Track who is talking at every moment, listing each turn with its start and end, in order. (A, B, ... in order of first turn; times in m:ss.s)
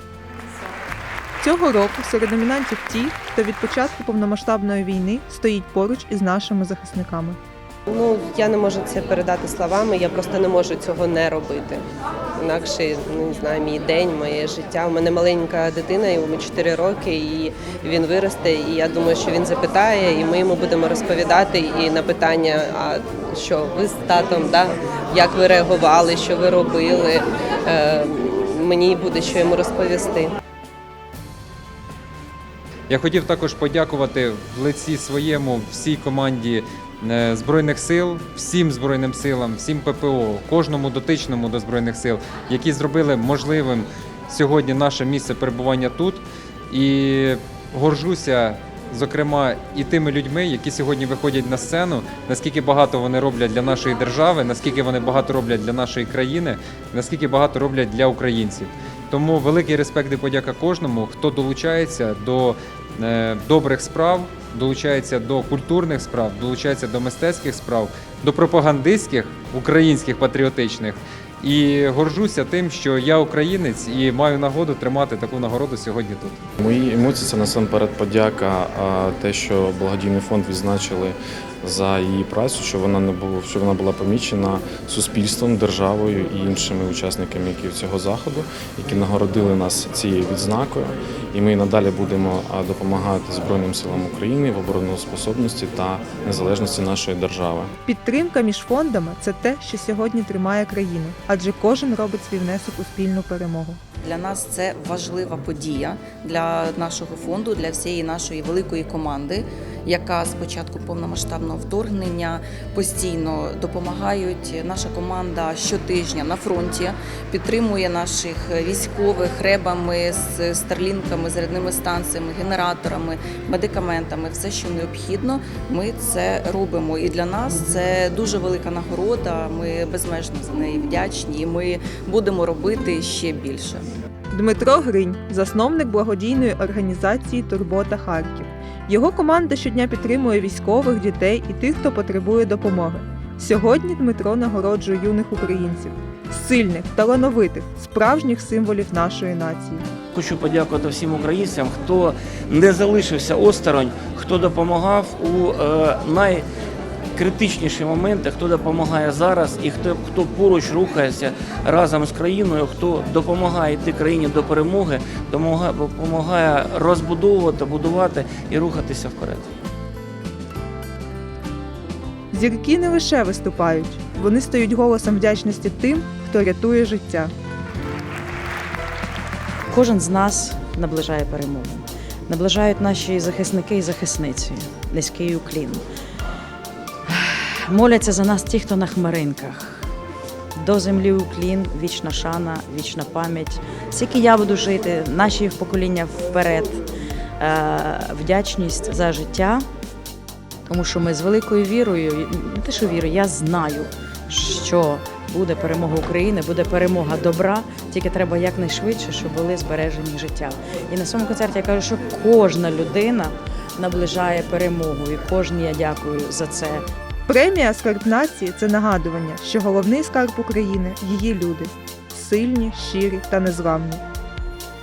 0:01.4-0:07.4 A
0:07.9-0:11.8 B
0:12.4-0:30.3 B
0:32.9-1:16.4 C
1:16.6-1:37.7 D
1:37.8-1:43.8 A
1:44.0-2:13.9 E
2:14.3-2:29.9 A
2:30.1-2:36.4 F
2:37.2-2:49.4 F
2:52.3-2:57.3 A
2:59.7-3:05.8 G
3:07.1-3:09.9 G
3:10.6-3:16.8 G
3:17.4-3:19.7 G
3:20.7-3:36.8 G
3:37.3-3:44.0 A